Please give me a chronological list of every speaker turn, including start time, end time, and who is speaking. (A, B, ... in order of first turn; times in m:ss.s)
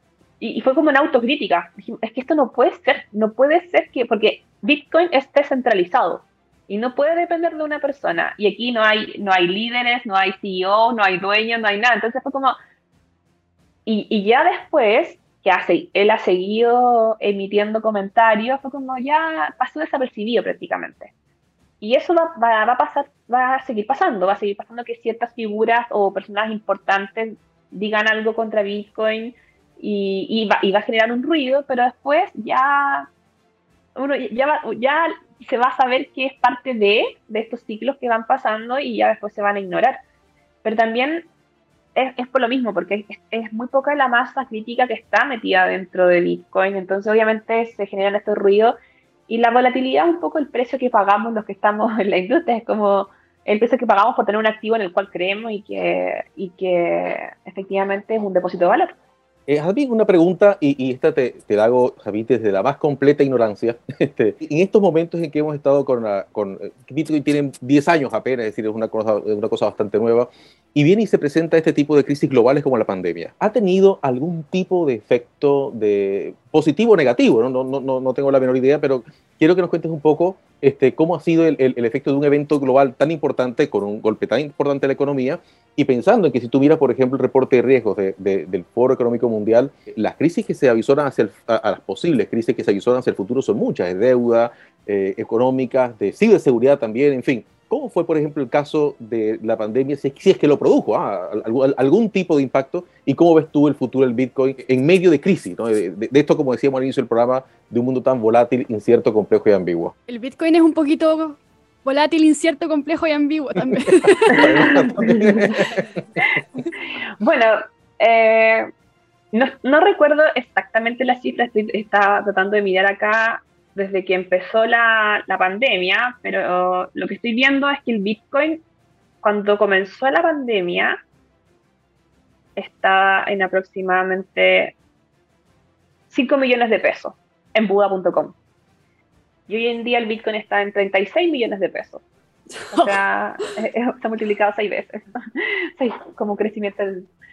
0:00.4-0:12.6 A
0:13.8-0:21.1 A
0:21.8-0:33.1 A
0:34.0-0:40.0 A
0:40.6-0:41.3 A
0:41.9-0:48.7 A
0:49.3-0:58.9 A
0:59.5-1:49.9 B
1:50.1-1:55.0 C
1:54.2-1:55.8 B
1:54.4-1:55.6 A
1:57.2-1:58.7 A
1:59.3-2:08.6 A
2:09.2-2:11.0 A
2:12.6-2:14.7 A
2:16.1-2:18.4 A
2:19.5-2:22.0 A
2:22.6-2:22.9 C
2:22.7-2:27.1 A